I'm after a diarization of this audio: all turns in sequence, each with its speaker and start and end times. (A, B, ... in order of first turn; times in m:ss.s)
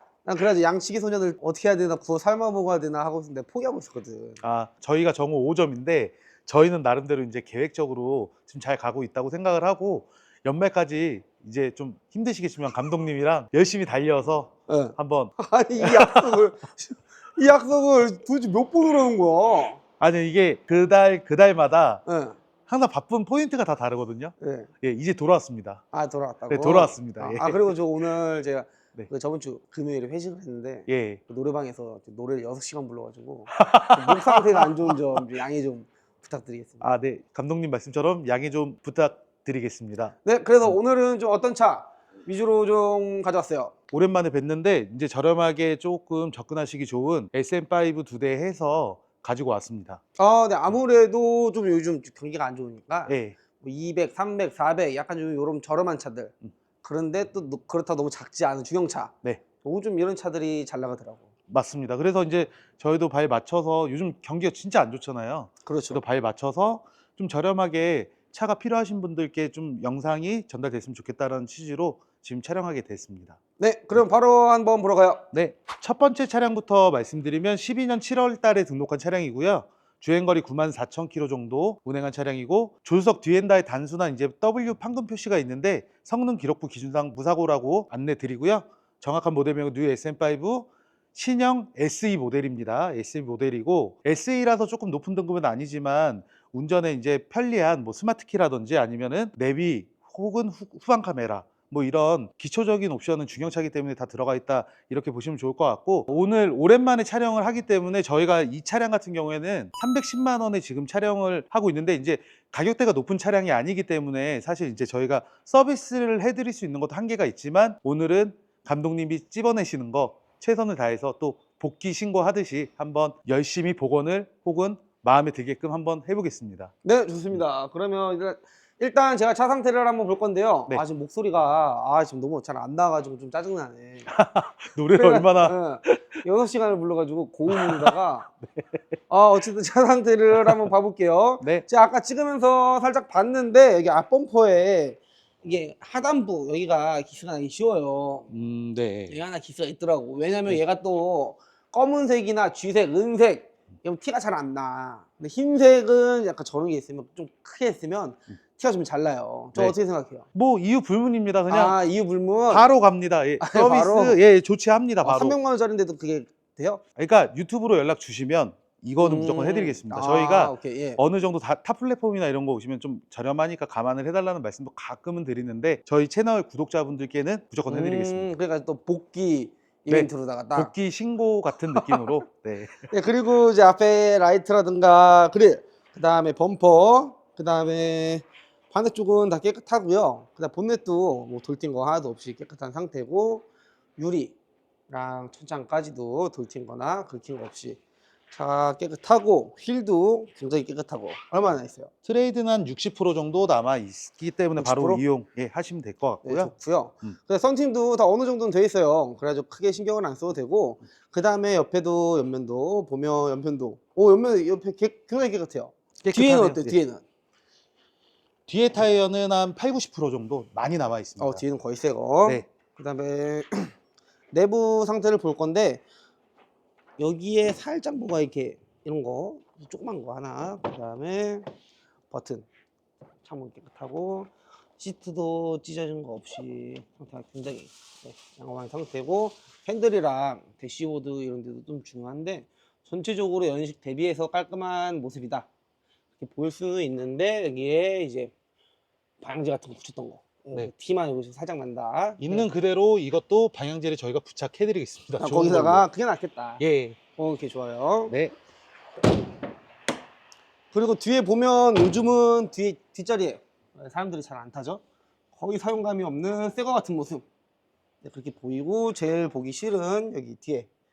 0:00.2-0:04.4 A
0:04.4-0:16.4 B
0:14.7-0:19.8 A
0:20.0-0:22.0 B
0:22.0-0:22.4 A
0:22.7-0:25.8 B
0:24.4-0:24.7 A
0:25.9-0:36.8 A
0:26.5-0:27.7 B
0:30.9-0:31.2 B
0:33.5-0:35.0 B
0:36.8-0:40.8 B
0:40.2-0:43.7 A
0:43.9-0:50.0 B
0:50.2-1:01.2 A
0:53.1-0:53.4 B
1:01.5-1:13.4 B
1:05.6-1:06.0 A
1:13.6-1:15.2 A
1:15.3-2:06.7 B
2:06.8-2:14.1 A
2:14.1-2:16.2 B
2:14.9-2:18.3 A
2:17.5-2:17.9 B
2:18.5-2:18.8 B
2:19.1-2:28.3 A
2:21.4-2:21.6 B
2:28.3-2:29.2 B
2:29.1-2:40.2 A
2:40.3-2:41.8 B
2:41.5-2:42.7 A
2:42.5-2:45.4 B
2:43.4-2:44.2 A
2:45.0-2:46.8 A
2:47.0-2:58.3 B
2:49.0-2:51.0 A
2:57.7-3:00.7 A
2:59.9-3:02.8 B
3:01.8-3:02.1 A
3:02.9-3:13.4 A
3:14.0-3:14.3 A
3:14.9-3:17.8 A
3:18.3-3:21.9 A
3:22.0-3:27.2 B
3:24.6-3:25.0 A
3:26.2-3:37.0 A
3:36.0-3:36.8 B
3:38.5-3:41.4 B
3:41.2-3:43.7 A
3:44.3-3:45.8 A
3:47.0-3:51.5 A
3:52.1-3:52.5 A
3:53.2-4:05.5 A
4:06.2-4:08.3 A
4:09.2-4:12.5 A
4:12.2-4:15.8 B
4:15.2-4:16.6 A
4:16.6-4:17.0 B
4:17.2-4:18.1 A
4:20.7-4:24.8 A
4:25.3-4:27.2 A
4:28.0-4:30.7 A